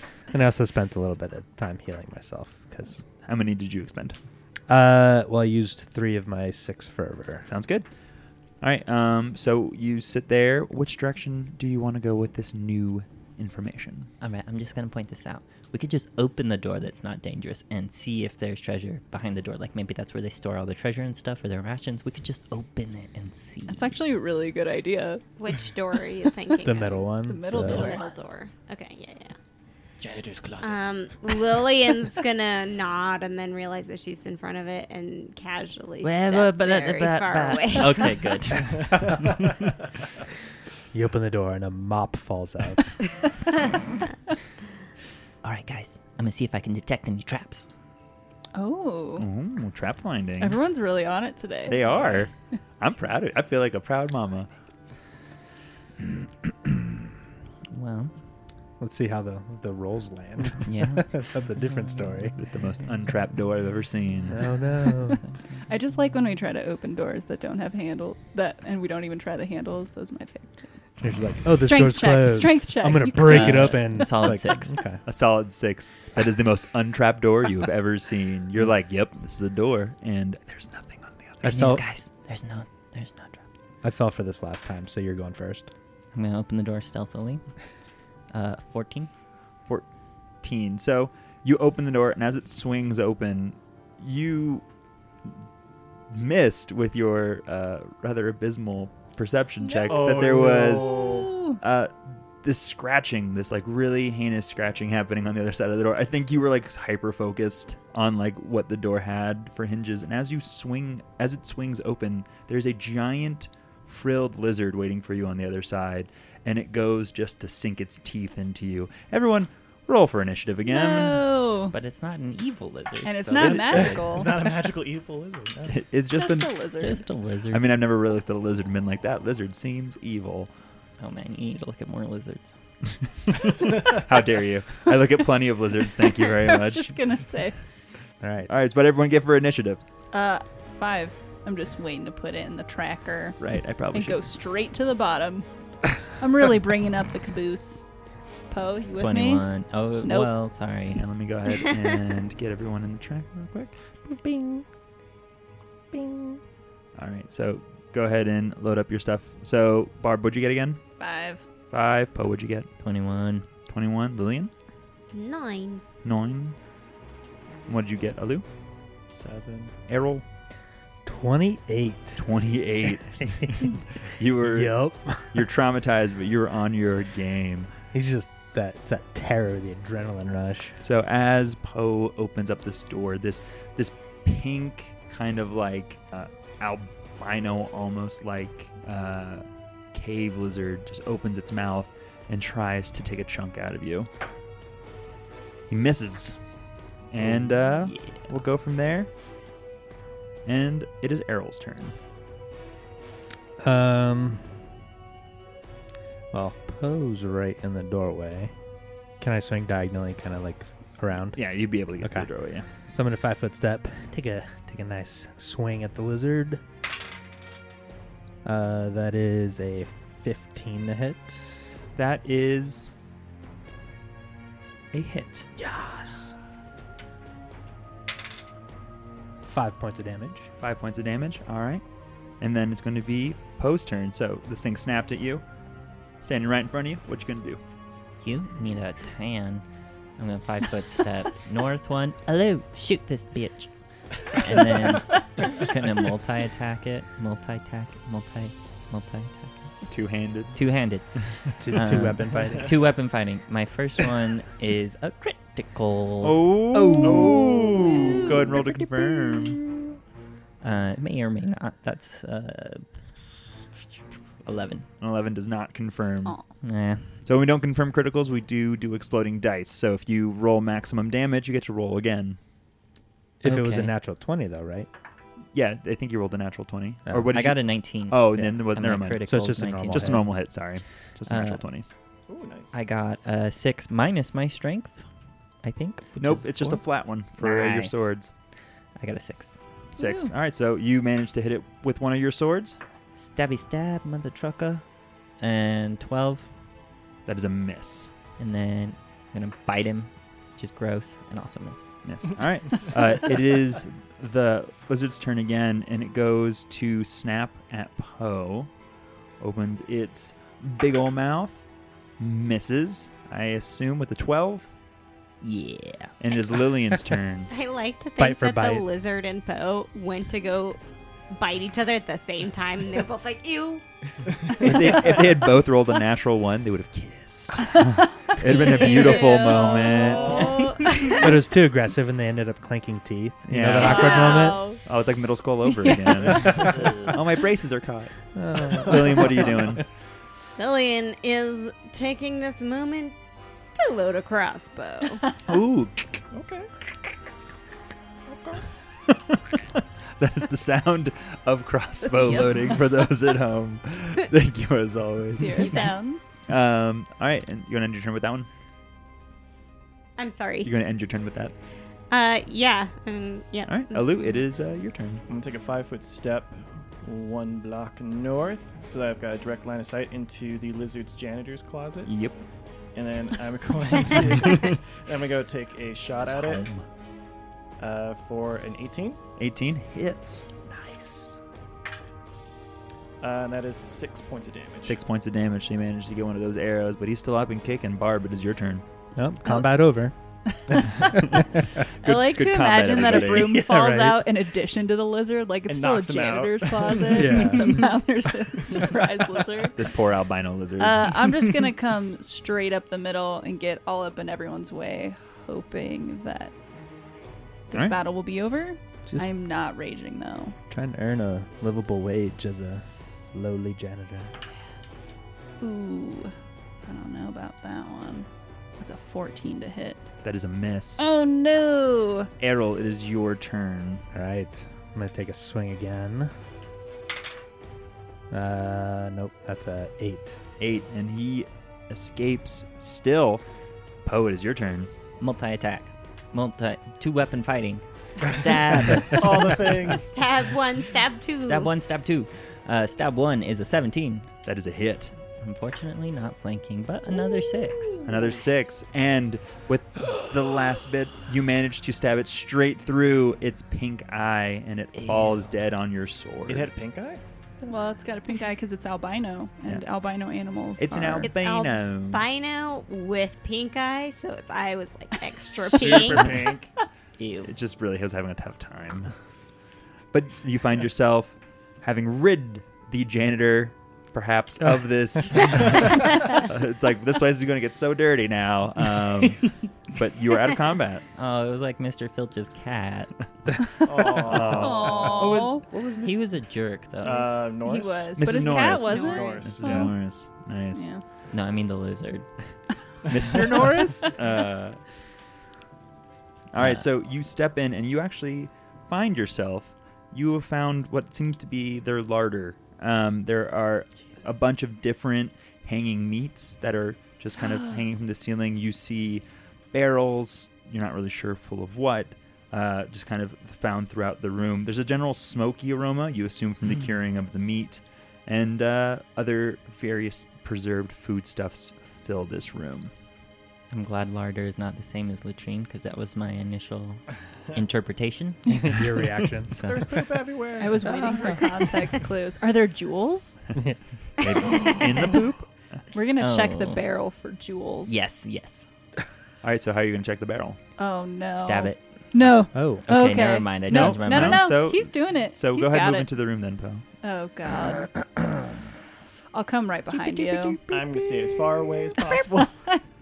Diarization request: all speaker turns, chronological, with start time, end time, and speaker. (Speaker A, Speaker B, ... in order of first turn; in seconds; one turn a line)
Speaker A: 0.3-3.0
Speaker B: 3.2-4.2
Speaker A: 4.7-7.5
Speaker B: 7.5-7.8
Speaker B: 8.6-14.1
Speaker C: 14.2-23.9
Speaker D: 23.7-25.3
Speaker E: 25.4-29.4
Speaker A: 26.6-28.0
Speaker D: 27.3-28.1
Speaker F: 30.0-30.9
Speaker E: 30.6-38.3
Speaker C: 36.0-39.3
Speaker F: 38.7-39.0
Speaker A: 40.9-43.0
Speaker C: 45.4-47.7
Speaker D: 48.5-49.3
Speaker B: 49.2-50.6
Speaker D: 50.4-51.8
Speaker B: 51.7-54.5
Speaker F: 51.8-52.2
Speaker C: 57.7-58.1
Speaker A: 58.8-62.3
Speaker C: 60.6-61.2
Speaker B: 62.3-64.6
Speaker A: 64.3-65.2
Speaker C: 65.3-65.6
Speaker D: 65.7-70.7
Speaker A: 71.0-75.0
Speaker D: 71.5-73.9
Speaker C: 73.2-74.8
Speaker B: 75.0-81.6
Speaker A: 81.4-81.8
Speaker C: 81.5-83.6
Speaker A: 83.8-85.7
Speaker C: 86.1-87.5
Speaker C: 88.3-89.1
Speaker B: 90.4-94.6
Speaker B: 96.1-121.2
Speaker D: 99.6-100.1
Speaker F: 99.8-101.3
Speaker D: 100.8-101.6
Speaker D: 120.6-121.8
Speaker C: 121.7-124.4
Speaker D: 123.0-124.4
Speaker B: 123.4-124.0
Speaker F: 123.6-125.8
Speaker B: 125.7-126.7
Speaker D: 126.1-127.0
Speaker C: 126.8-127.6
Speaker B: 127.5-130.5
Speaker C: 131.0-132.5
Speaker B: 133.3-136.9
Speaker D: 136.3-137.6
Speaker A: 138.2-138.5
Speaker B: 138.5-139.8
Speaker D: 140.1-147.8
Speaker B: 143.4-144.2
Speaker D: 148.5-149.5
Speaker C: 149.0-151.1
Speaker D: 150.0-150.3
Speaker B: 150.9-153.8
Speaker A: 154.1-154.6
Speaker A: 155.9-156.4
Speaker B: 156.9-160.8
Speaker D: 161.0-161.4
Speaker B: 161.7-162.7
Speaker C: 162.8-163.5
Speaker B: 163.6-164.5
Speaker E: 165.1-165.8
Speaker B: 166.0-166.6
Speaker B: 167.7-168.4
Speaker F: 169.1-169.7
Speaker B: 169.9-170.2
Speaker A: 171.1-172.2
Speaker B: 172.2-177.7
Speaker A: 173.4-173.7
Speaker A: 174.4-175.4
Speaker A: 177.9-180.8
Speaker B: 180.8-194.1
Speaker B: 195.7-196.4
Speaker B: 197.1-199.1
Speaker C: 197.8-198.2
Speaker B: 200.4-201.9
Speaker A: 203.6-204.5
Speaker A: 206.3-208.5
Speaker A: 209.2-212.3
Speaker B: 211.3-212.7
Speaker A: 212.9-216.6
Speaker A: 218.4-221.6
Speaker B: 221.9-222.9
Speaker B: 224.9-225.5
Speaker A: 225.6-226.3
Speaker A: 229.4-230.5
Speaker B: 230.6-231.8
Speaker B: 232.4-235.4
Speaker B: 236.2-237.6
Speaker C: 238.2-239.6
Speaker C: 240.2-249.8
Speaker B: 249.8-250.7
Speaker C: 250.5-259.9
Speaker A: 251.6-252.7
Speaker B: 256.2-259.6
Speaker F: 257.0-257.8
Speaker D: 257.8-258.8
Speaker C: 260.6-262.9
Speaker C: 264.4-264.9
Speaker B: 265.0-266.5
Speaker C: 266.6-267.2
Speaker B: 267.2-272.4
Speaker A: 273.4-274.9
Speaker C: 273.4-273.9
Speaker B: 275.5-279.2
Speaker C: 277.3-280.4
Speaker A: 279.2-280.3
Speaker B: 279.9-281.9
Speaker C: 281.2-281.6
Speaker F: 282.3-282.8
Speaker C: 282.7-285.0
Speaker C: 285.6-288.1
Speaker B: 286.2-288.3
Speaker C: 289.0-289.6
Speaker B: 289.9-292.8
Speaker D: 290.0-290.3
Speaker C: 293.2-294.8
Speaker C: 295.4-296.5
Speaker B: 297.2-298.1
Speaker C: 298.4-301.9
Speaker B: 302.0-308.7
Speaker B: 309.4-311.6
Speaker B: 312.2-314.7
Speaker C: 315.4-316.1
Speaker B: 316.2-317.5
Speaker E: 317.5-323.8
Speaker A: 318.2-318.9
Speaker B: 324.6-330.7
Speaker E: 328.4-331.3
Speaker D: 328.6-329.7
Speaker F: 330.2-330.6
Speaker A: 331.1-334.7
Speaker B: 333.5-338.1
Speaker D: 333.8-334.8
Speaker D: 335.6-336.3
Speaker A: 336.4-336.7
Speaker A: 338.3-339.5
Speaker B: 338.7-339.8
Speaker E: 340.6-343.1
Speaker E: 343.7-345.3
Speaker B: 345.4-346.2
Speaker F: 346.3-346.7
Speaker F: 348.3-348.6
Speaker B: 349.1-355.9
Speaker D: 355.3-356.4
Speaker E: 355.5-355.9
Speaker B: 356.5-358.5
Speaker E: 360.2-360.7
Speaker B: 360.6-361.5
Speaker E: 362.1-364.4
Speaker B: 363.7-365.2
Speaker F: 365.3-372.1
Speaker B: 372.1-372.4
Speaker F: 372.9-376.6
Speaker B: 374.3-374.7
Speaker B: 376.2-376.9
Speaker F: 377.8-379.2
Speaker B: 379.4-380.4
Speaker A: 380.7-381.4
Speaker F: 383.2-385.0
Speaker B: 384.8-388.8
Speaker A: 389.1-391.6
Speaker D: 389.4-389.7
Speaker D: 390.6-391.4
Speaker B: 392.0-393.6
Speaker D: 392.0-399.8
Speaker A: 393.0-394.2
Speaker F: 395.7-397.5
Speaker A: 397.1-397.9
Speaker B: 399.7-401.3
Speaker D: 400.8-406.5
Speaker D: 407.7-410.6
Speaker A: 410.7-414.3
Speaker D: 415.6-420.0
Speaker B: 420.2-421.0
Speaker D: 421.0-422.3
Speaker B: 422.4-424.0
Speaker A: 424.1-426.3
Speaker A: 428.3-430.4
Speaker B: 430.6-433.4
Speaker B: 434.0-434.9
Speaker C: 435.2-439.6
Speaker F: 439.1-440.1
Speaker E: 439.9-441.7
Speaker C: 441.4-444.3
Speaker B: 444.4-445.1
Speaker C: 445.4-448.1
Speaker B: 448.0-456.7
Speaker C: 454.9-455.5
Speaker F: 456.4-457.2
Speaker D: 457.6-461.3
Speaker B: 460.8-462.2
Speaker E: 461.2-466.4
Speaker F: 465.5-466.7
Speaker C: 467.2-467.5
Speaker B: 467.4-469.1
Speaker B: 470.1-481.0
Speaker C: 481.1-483.1
Speaker F: 483.8-485.0
Speaker B: 484.2-486.3
Speaker D: 484.4-485.6
Speaker C: 485.9-487.5
Speaker F: 487.0-489.9
Speaker D: 487.6-489.9
Speaker B: 488.1-490.9
Speaker D: 490.7-491.0
Speaker C: 491.3-492.3
Speaker B: 493.1-494.8
Speaker B: 496.5-522.9
Speaker C: 496.6-496.8
Speaker C: 523.7-528.7
Speaker A: 528.5-529.5
Speaker C: 529.5-530.1
Speaker F: 529.5-531.4
Speaker D: 530.6-533.4
Speaker A: 533.5-533.8
Speaker B: 534.2-535.5
Speaker D: 534.5-535.2
Speaker D: 535.9-538.0
Speaker C: 536.2-536.8
Speaker C: 537.9-538.7
Speaker B: 539.4-540.6
Speaker D: 540.8-546.1
Speaker C: 541.3-541.8
Speaker A: 542.5-542.9
Speaker C: 542.8-544.5
Speaker B: 543.7-546.8
Speaker D: 547.0-547.9
Speaker D: 549.3-550.6
Speaker F: 550.7-552.5
Speaker D: 552.1-552.8